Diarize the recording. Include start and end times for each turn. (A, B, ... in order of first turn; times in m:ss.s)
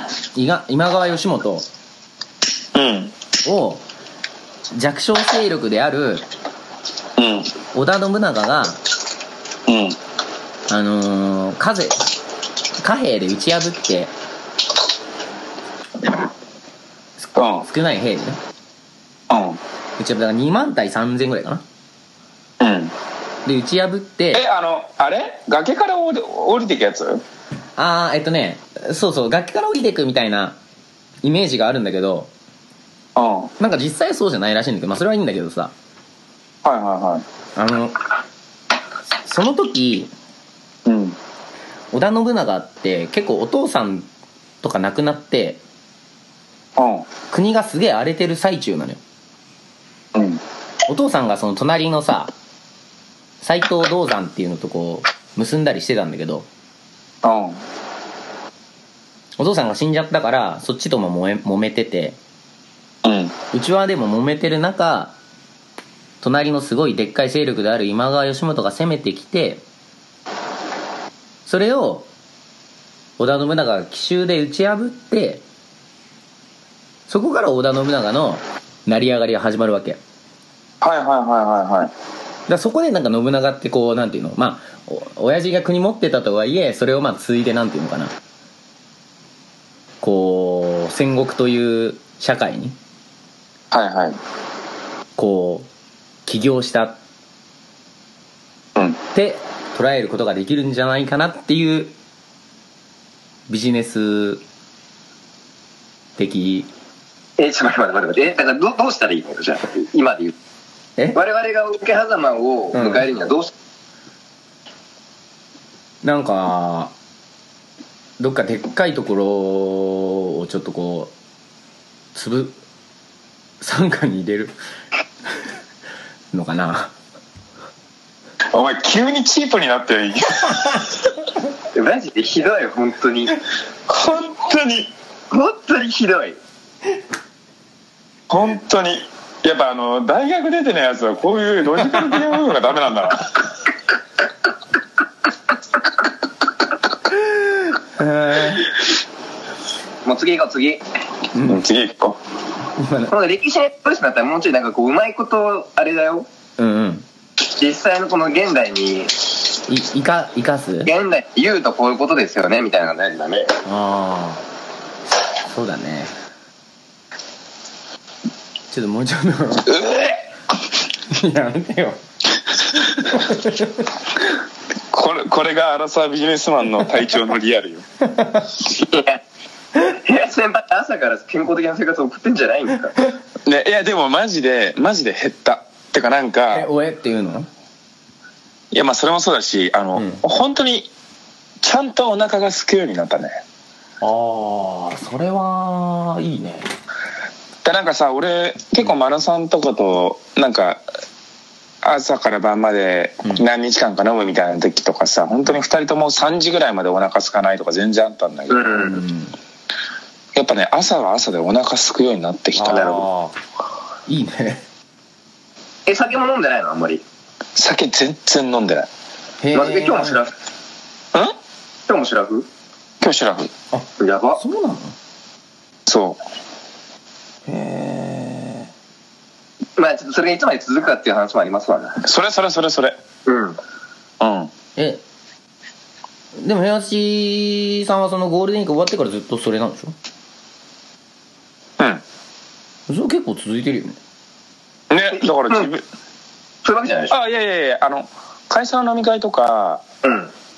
0:00.4-0:01.7 A
0:02.7-0:03.1 B
0:03.4-0:03.8 A
0:04.7-0:06.2 A
0:07.2-0:07.5 B
0:07.7-0:08.8 A
0:09.7-0:10.0 B
0:10.7-0:12.0 A
0:12.8-0:14.1 A
0:17.2-0:18.4 A
0:17.4-0:17.6 B
0:19.3-0:19.6 B
0:20.0-0:21.6 A
0:22.6-0:22.9 B
0:23.5-0:24.4 A
0:24.3-0:27.2 B
0:27.8-0:30.6 A
0:31.2-0:32.3 A
0:33.2-0:33.5 B
0:33.6-0:35.7 A
0:36.6-0:37.2 B
0:37.6-0:38.0 A
0:39.2-0:40.1 A
0:40.9-0:41.2 B
0:41.9-0:44.1 A
0:44.6-0:45.6 A
0:46.8-0:47.1 B
0:47.3-0:49.0 A
0:50.1-0:50.4 B
0:50.9-0:52.3 A
0:53.4-0:56.5 A
0:57.2-0:57.6 B
0:59.4-1:02.2 A
1:03.0-1:03.4 B
1:03.5-1:05.2 A
1:06.2-1:09.6 A
1:11.5-1:12.1 A
1:13.2-1:15.4 A
1:17.1-1:20.0 A
1:20.8-1:21.9 B
1:22.5-1:28.1 A
1:30.0-1:32.8 A
1:33.7-1:34.2 B
1:35.2-1:35.7 A
1:36.3-1:37.0 A
1:39.1-1:41.9 A
1:43.5-1:44.4 A
1:46.2-1:46.7 A
1:47.4-1:50.4 C
1:51.1-1:53.5 C
1:52.7-1:53.1 A
1:56.0-1:56.9 A
1:58.2-2:01.1 A
2:02.2-2:02.6 A
2:03.6-2:04.5 A
2:06.3-2:06.9 A
2:08.5-2:10.9 B
2:11.7-2:13.4 C
2:13.9-2:14.9 B
2:15.3-2:16.4 C
2:18.3-2:23.3 B
2:27.2-2:28.7 A
2:30.0-2:30.8 C
2:31.3-2:31.6 A
2:31.5-2:32.2 B
2:32.8-2:33.1 A
2:33.1-2:36.3 C
2:36.6-2:37.0 A
2:37.4-2:39.2 C
2:39.7-2:40.9 A
2:40.8-2:43.6 C
2:43.6-2:44.4 A
2:45.5-2:46.1 A
2:48.7-2:49.8 A
2:49.7-2:50.2 B
2:51.1-2:52.0 A
2:53.1-2:53.9 A
2:54.9-2:57.8 B
2:58.0-2:58.5 A
2:58.6-2:59.2 C
2:59.8-3:03.0 C
3:03.4-3:06.7 B
3:06.5-3:07.5 A
3:08.7-3:10.9 B
3:10.0-3:10.2 A
3:11.6-3:13.4 B
3:14.0-3:16.7 A
3:17.6-3:20.8 B
3:21.8-3:28.9 B
3:28.5-3:29.0 C
3:28.8-3:29.4 A
3:30.4-3:33.0 B
3:32.6-3:33.4 A
3:32.7-3:33.0 C
3:34.1-3:34.6 A
3:35.9-3:37.0 C
3:37.6-3:38.9 B
3:39.4-3:40.2 A
3:39.5-3:40.3 C
3:41.9-3:42.5 C
3:43.0-3:43.5 B
3:43.7-3:45.0 A
3:44.0-3:44.4 C
3:45.9-3:46.2 B
3:47.5-3:48.7 A
3:49.8-3:52.0 C
3:52.0-3:53.0 B
3:53.3-3:53.6 C
3:54.2-3:54.5 B
3:54.8-3:55.0 A
3:56.4-3:59.9 A
4:02.9-4:04.0 A
4:04.9-4:05.8 B
4:06.6-4:07.2 C
4:07.1-4:09.8 B
4:10.0-4:10.3 C